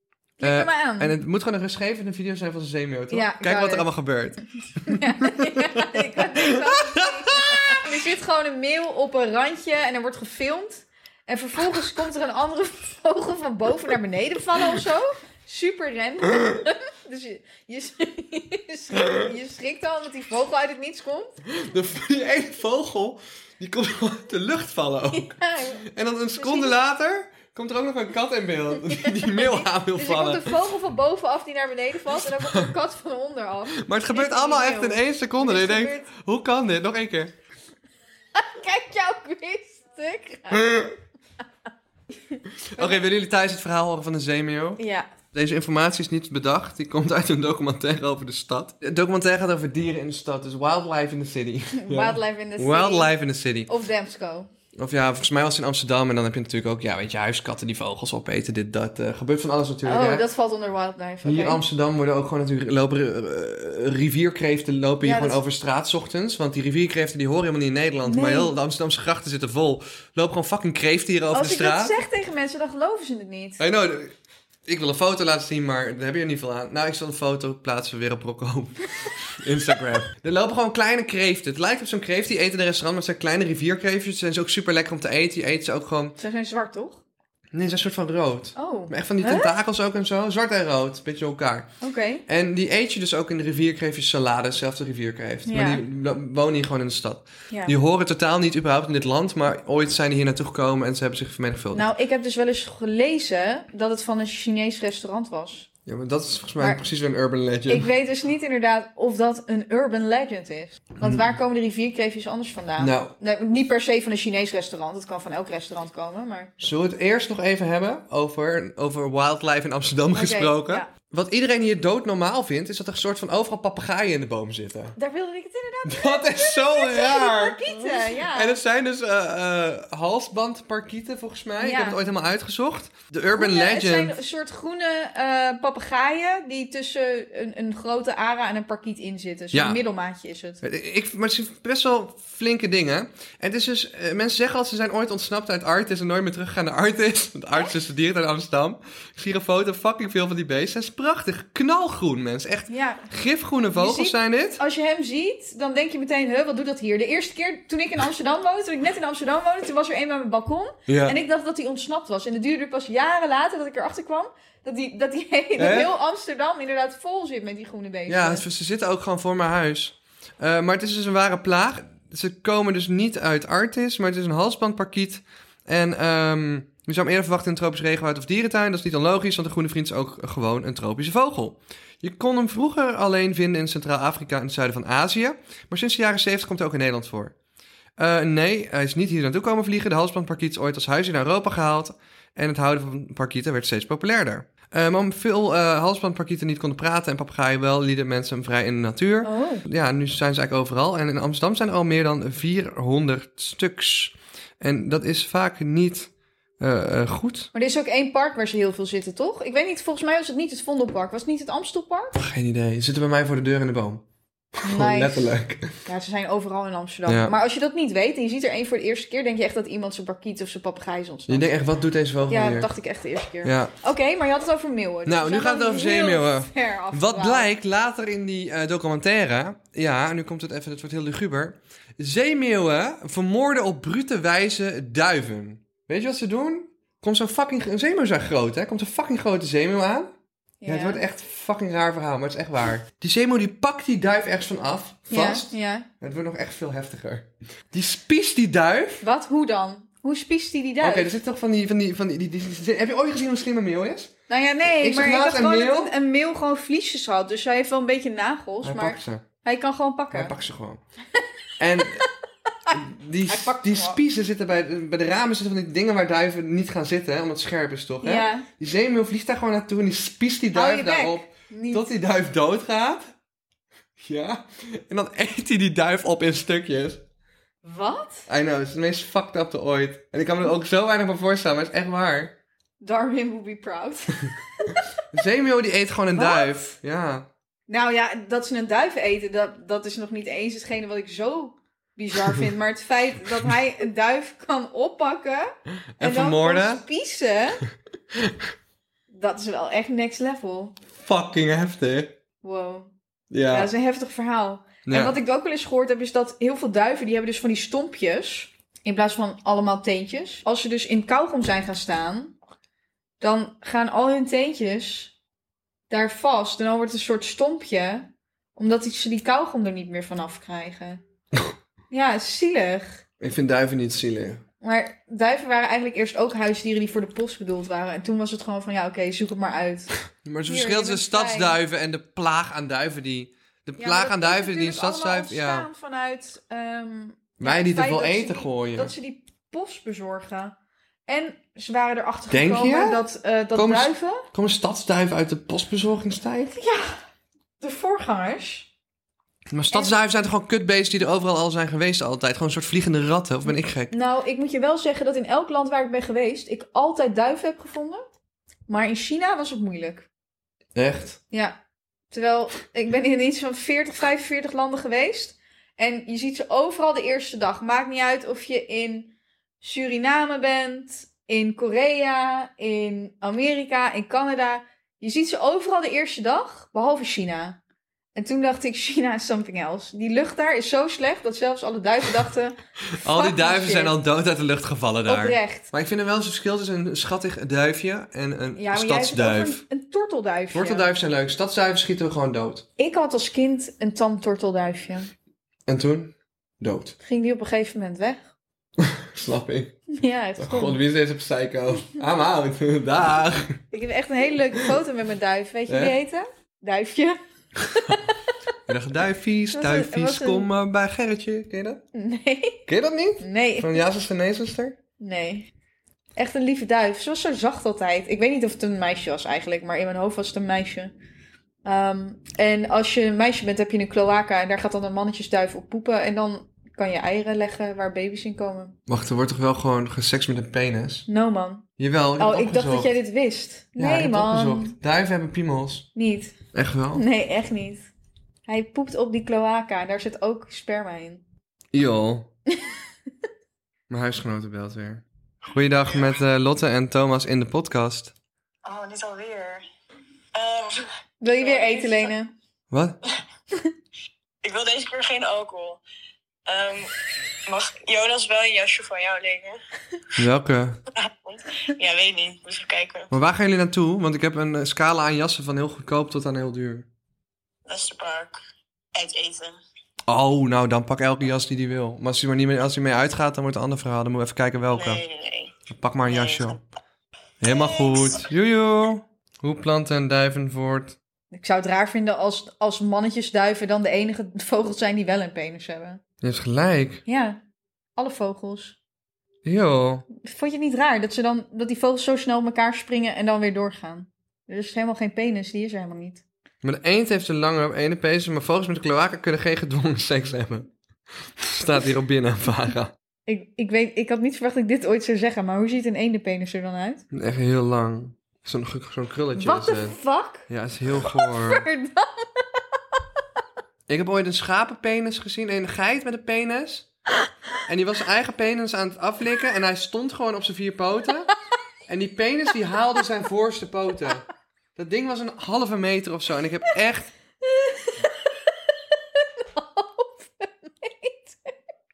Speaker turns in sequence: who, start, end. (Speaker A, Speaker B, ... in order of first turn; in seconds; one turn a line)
Speaker A: 0.4-1.1
Speaker B: 0.4-7.8
Speaker A: 3.1-3.9
Speaker A: 4.8-21.4
Speaker B: 19.0-19.3
Speaker B: 21.5-30.5
Speaker A: 25.1-25.8
Speaker A: 26.4-26.8
Speaker A: 28.8-36.1
Speaker B: 32.4-32.7
Speaker B: 33.8-37.3
Speaker A: 38.3-40.9
Speaker B: 40.5-40.9
Speaker A: 42.3-43.0
Speaker B: 42.6-53.7
Speaker A: 44.8-45.1
Speaker A: 51.7-53.1
Speaker A: 53.7-54.5
Speaker B: 54.8-60.2
Speaker A: 59.8-61.6
Speaker B: 61.2-72.0
Speaker A: 65.0-65.4
Speaker A: 68.0-68.5
Speaker A: 71.3-73.6
Speaker B: 73.6-74.1
Speaker B: 74.7-86.2
Speaker A: 86.2-87.0
Speaker B: 87.5-91.7
Speaker A: 88.5-89.5
Speaker A: 91.8-92.2
Speaker B: 92.3-101.9
Speaker A: 95.5-95.8
Speaker A: 101.7-105.7
Speaker B: 105.8-107.9
Speaker A: 107.7-116.5
Speaker B: 112.8-113.1
Speaker B: 116.6-125.0
Speaker A: 120.1-120.9
Speaker A: 125.0-128.6
Speaker B: 125.8-134.1
Speaker A: 131.6-132.0
Speaker A: 133.3-140.6
Speaker B: 139.5-139.8
Speaker B: 140.6-154.6
Speaker A: 152.7-153.1
Speaker A: 153.8-168.4
Speaker B: 160.9-161.2
Speaker B: 165.6-165.9
Speaker B: 168.1-187.3
Speaker B: 188.0-207.5
Speaker A: 199.2-199.6
Speaker A: 207.5-212.2
Speaker B: 212.1-214.0
Speaker B: 214.6-215.8
Speaker A: 214.6-221.5
Speaker B: 217.1-217.3
Speaker B: 221.3-222.7
Speaker A: 222.3-227.5
Speaker B: 223.4-223.7
Speaker B: 225.1-240.1
Speaker A: 240.6-241.0
Speaker B: 240.7-249.0
Speaker A: 245.1-245.9
Speaker A: 249.0-251.1
Speaker B: 250.8-254.1
Speaker A: 254.3-260.3
Speaker B: 254.8-255.9
Speaker B: 258.6-259.2
Speaker B: 260.1-260.8
Speaker B: 261.6-262.1
Speaker A: 261.8-262.1
Speaker B: 262.7-273.1
Speaker A: 263.3-264.0
Speaker A: 268.0-268.5
Speaker A: 270.5-271.9
Speaker B: 274.0-277.0
Speaker A: 277.6-278.3
Speaker B: 278.3-282.3
Speaker A: 282.8-284.8
Speaker B: 285.1-287.3
Speaker A: 286.1-286.5
Speaker A: 287.7-297.6
Speaker B: 296.0-296.8
Speaker B: 298.1-298.4
Speaker A: 299.1-300.8
Speaker B: 301.0-302.1
Speaker A: 302.4-302.9
Speaker B: 303.3-303.7
Speaker A: 303.5-312.4
Speaker B: 304.9-305.2
Speaker A: 313.2-315.1
Speaker A: 315.9-321.0
Speaker A: 321.9-323.0
Speaker B: 323.2-324.4
Speaker A: 324.6-329.9
Speaker B: 330.2-335.7
Speaker A: 330.5-331.6
Speaker A: 333.8-340.6
Speaker B: 337.4-338.9
Speaker A: 341.1-344.2
Speaker B: 342.3-343.0
Speaker B: 343.5-346.5
Speaker A: 346.5-347.0
Speaker A: 347.6-348.7
Speaker B: 349.5-353.9
Speaker A: 353.9-358.0
Speaker A: 358.7-360.1
Speaker B: 360.7-361.2
Speaker A: 361.3-361.6
Speaker A: 362.1-377.6
Speaker A: 378.1-383.9
Speaker B: 382.9-389.6
Speaker A: 385.1-385.7
Speaker A: 388.6-390.9
Speaker B: 390.5-392.6
Speaker A: 392.8-395.1
Speaker B: 395.7-397.0
Speaker A: 397.0-398.3
Speaker B: 398.8-399.7
Speaker A: 399.9-400.8
Speaker B: 400.4-403.6
Speaker A: 403.7-407.2
Speaker B: 405.7-406.0
Speaker B: 407.6-408.0
Speaker A: 407.8-408.2
Speaker B: 408.7-411.8
Speaker A: 409.5-410.5
Speaker A: 411.9-412.7
Speaker B: 412.7-414.8
Speaker A: 413.2-413.9
Speaker A: 415.0-415.5
Speaker A: 416.2-420.9
Speaker A: 421.6-428.7
Speaker B: 428.9-431.1
Speaker A: 431.1-431.6
Speaker B: 431.8-432.9
Speaker A: 432.2-434.8
Speaker B: 433.8-435.9
Speaker A: 435.9-436.4
Speaker B: 436.5-437.0
Speaker A: 436.9-437.9
Speaker A: 438.5-441.2
Speaker B: 441.7-442.3
Speaker A: 442.5-442.8
Speaker B: 443.9-448.1
Speaker C: 448.6-449.6
Speaker C: 450.3-452.1
Speaker A: 451.2-452.3
Speaker B: 452.7-453.0
Speaker C: 454.4-455.8
Speaker C: 456.4-456.9
Speaker C: 457.4-459.6
Speaker B: 460.1-460.8
Speaker C: 460.9-463.1
Speaker B: 463.1-466.9
Speaker C: 467.6-468.4
Speaker C: 468.9-469.6
Speaker B: 470.1-475.0
Speaker C: 474.7-475.5
Speaker B: 475.7-476.6
Speaker C: 476.1-476.6
Speaker B: 477.4-481.0
Speaker C: 477.4-478.2
Speaker A: 481.3-486.0
Speaker B: 486.2-487.0
Speaker A: 487.1-487.4
Speaker A: 487.9-488.8
Speaker B: 489.4-490.0
Speaker A: 490.1-496.2
Speaker B: 496.6-500.7
Speaker B: 501.4-502.9
Speaker A: 503.3-507.0
Speaker B: 507.1-509.9
Speaker A: 509.3-510.4
Speaker B: 510.5-511.7
Speaker A: 511.0-513.0
Speaker B: 513.9-516.9
Speaker B: 517.6-521.3
Speaker B: 521.9-527.1
Speaker A: 527.4-531.5